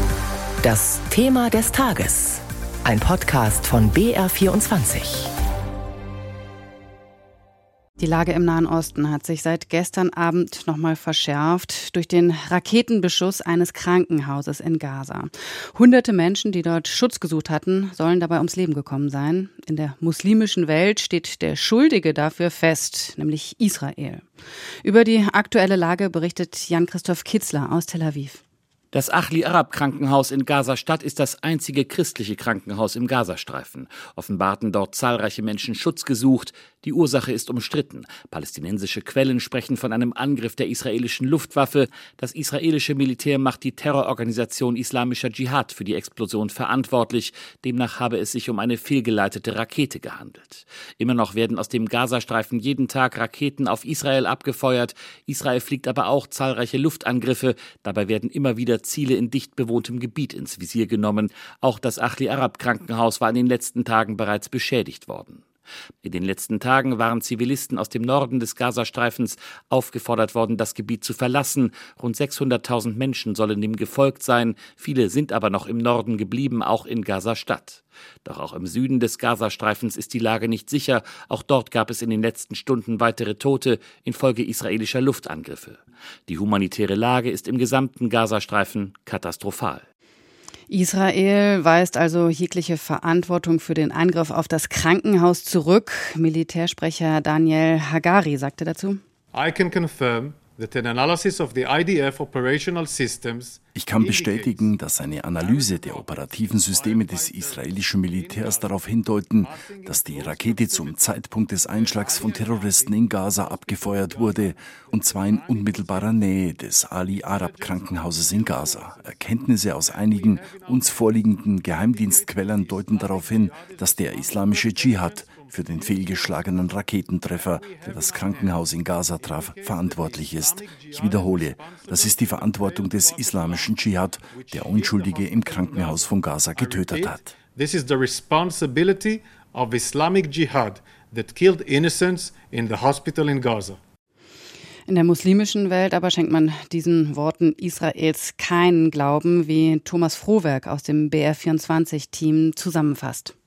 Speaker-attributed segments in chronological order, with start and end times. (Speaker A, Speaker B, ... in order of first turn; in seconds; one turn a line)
Speaker A: 0.6-5.3
Speaker B: 8.0-24.3
Speaker B: 24.8-28.4
Speaker C: 28.9-65.4
Speaker C: 66.0-89.8
Speaker B: 90.7-99.0
Speaker D: 99.3-104.8
Speaker E: 103.7-137.3
Speaker D: 105.3-143.8
Speaker B: 144.9-153.3